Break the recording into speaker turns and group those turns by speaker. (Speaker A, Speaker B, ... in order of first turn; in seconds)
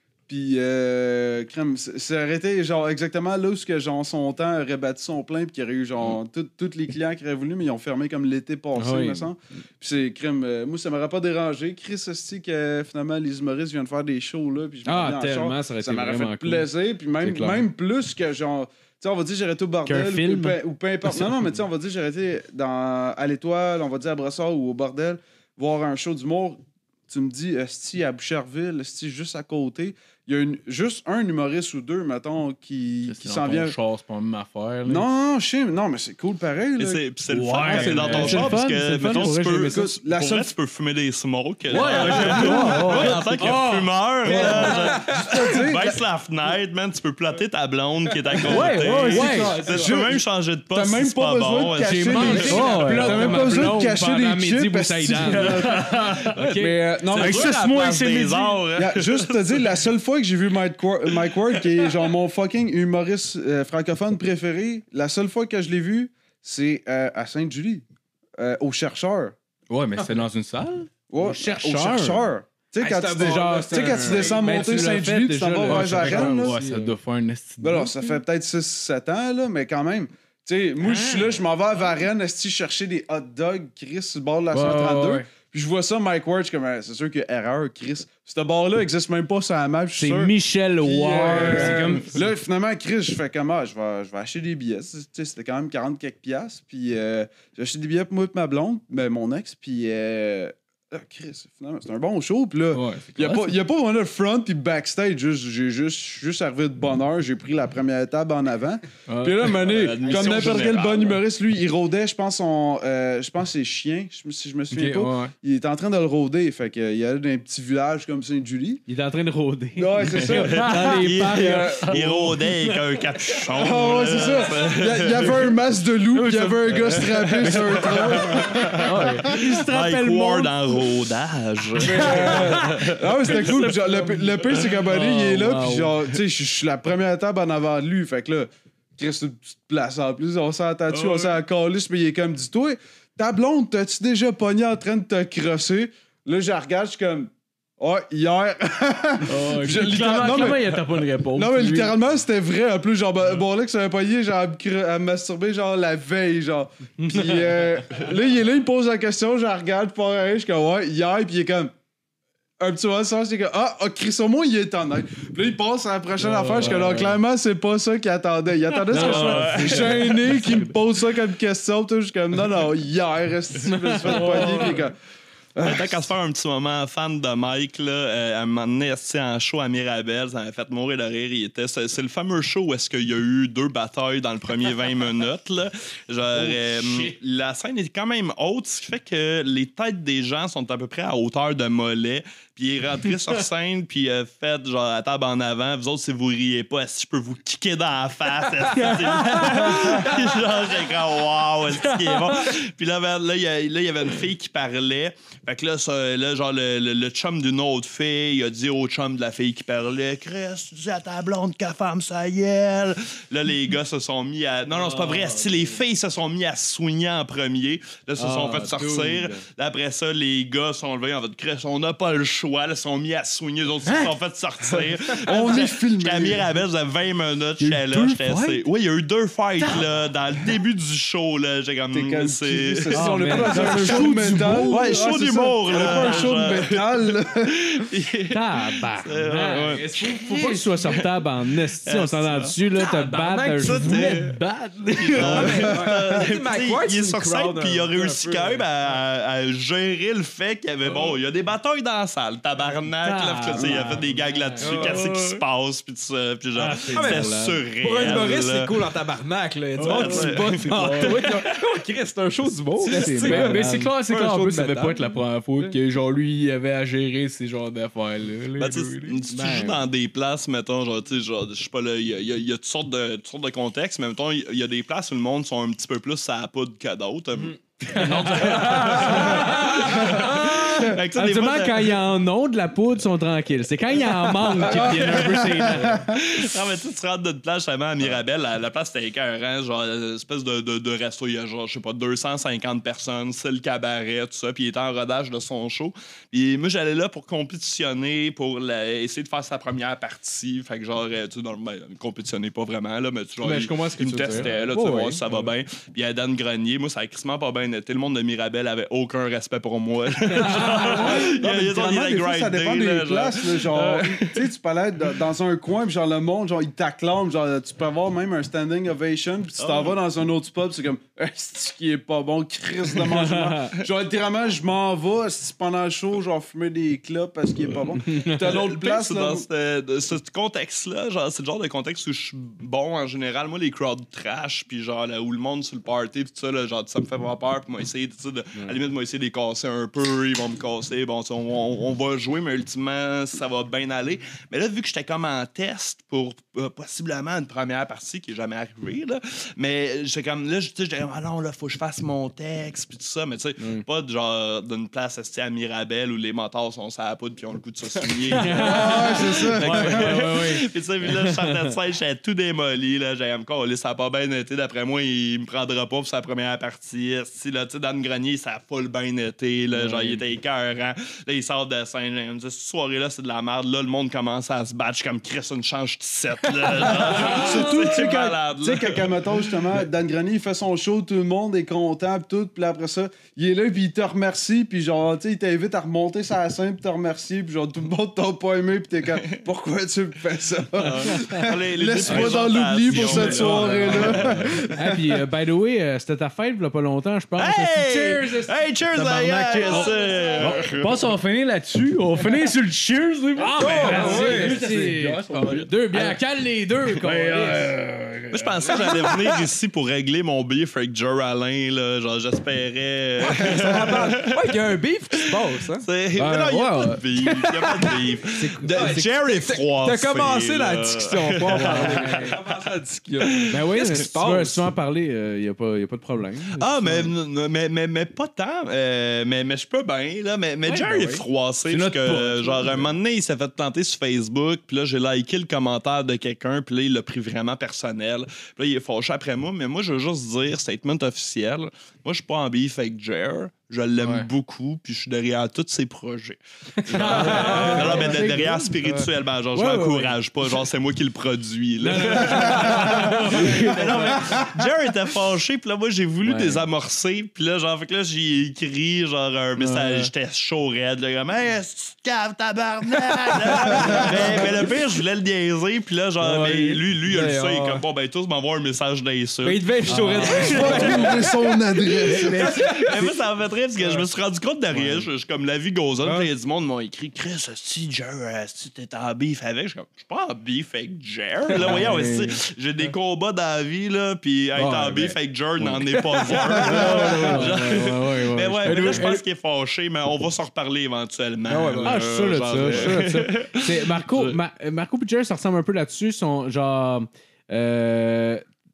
Speaker A: 0.3-33.8, 34.9-37.0, 37.7-38.5, 39.1-40.5, 42.0-43.6, 44.3-46.0, 48.5-55.8, 56.6-57.7, 58.8-67.8, 68.4-69.3, 71.1-76.6, 77.6-118.8, 119.8-122.4, 123.5-129.1, 131.8-161.7, 162.6-174.9, 175.6-176.1, 225.2-226.5, 231.9-237.6, 310.7-329.4, 358.5-360.2, 377.0-394.8, 470.4-472.8
Speaker B: 8.8-9.3, 14.9-16.7, 17.2-17.6, 19.9-20.6, 37.7-39.9, 42.0-44.9, 48.5-49.6, 51.8-57.1, 71.2-72.3, 72.8-77.0, 80.8-81.4, 90.0-92.0, 118.9-122.0, 128.9-130.6, 166.6-167.0, 169.0-169.6, 173.7-174.8, 186.5-187.1, 198.8-200.2, 218.2-219.4, 232.9-234.6, 238.3-245.7, 253.0-255.2, 256.6-257.6, 262.9-263.9, 269.3-269.8, 277.9-286.1, 303.4-305.5, 310.4-311.3, 323.1-323.7, 358.4-361.7, 393.4-394.1, 394.7-398.4, 403.4-407.7, 418.3-419.1, 421.4-422.4, 423.5-427.1, 430.6-431.2, 446.9-448.9, 449.5-450.2, 451.8-454.3, 456.2-456.6, 459.6-460.0, 469.9-470.5, 481.8-482.2, 486.6-489.2, 491.8-498.4
Speaker C: 33.1-35.0, 37.3-38.5, 41.7-43.3, 49.0-49.9, 52.4-53.5, 55.6-56.4, 57.1-58.6, 69.7-70.9, 75.7-78.2, 84.5-85.3, 91.2-92.3, 102.7-103.6, 109.1-109.6, 114.7-115.3, 126.2-126.6, 127.4-128.2, 128.8-129.3, 134.9-135.9, 140.9-141.4, 149.2-152.0, 166.2-167.2, 168.9-170.5, 174.1-174.7, 199.4-199.9, 214.8-215.5, 223.9-224.1, 227.6-228.6, 233.0-234.8, 259.8-261.2, 262.8-269.2, 277.9-279.9, 359.7-360.4, 369.8-370.2, 392.9-394.6, 398.9-406.2, 407.0-409.0, 416.2-417.1, 431.7-432.9, 444.0-444.3, 447.2-448.1, 469.9-470.4, 481.6-482.3, 486.6-489.1
Speaker D: 36.8-52.5, 55.3-56.4, 57.1-59.8, 109.5-111.2, 120.0-125.5, 126.7-134.8, 168.9-170.4, 175.6-233.2, 234.7-236.8, 237.4-241.0, 241.8-258.8, 259.8-261.4, 268.6-282.0, 283.9-314.3, 319.6-320.0, 328.3-379.8, 390.8-394.6, 397.4-400.9, 408.3-414.6, 415.4-422.5, 423.2-424.0, 426.6-469.6, 470.2-471.3, 472.1-494.4
Speaker E: 72.8-74.7, 131.9-132.8, 233.3-234.1, 243.7-244.1, 245.1-248.6, 254.6-255.0, 256.8-265.8, 399.8-400.6, 403.5-405.0, 413.2-415.9, 418.7-424.7, 447.0-448.2, 463.7-464.5, 466.2-467.8, 469.4-471.4, 472.1-473.2, 473.8-474.1, 476.0-476.3, 484.6-485.0, 491.5-493.0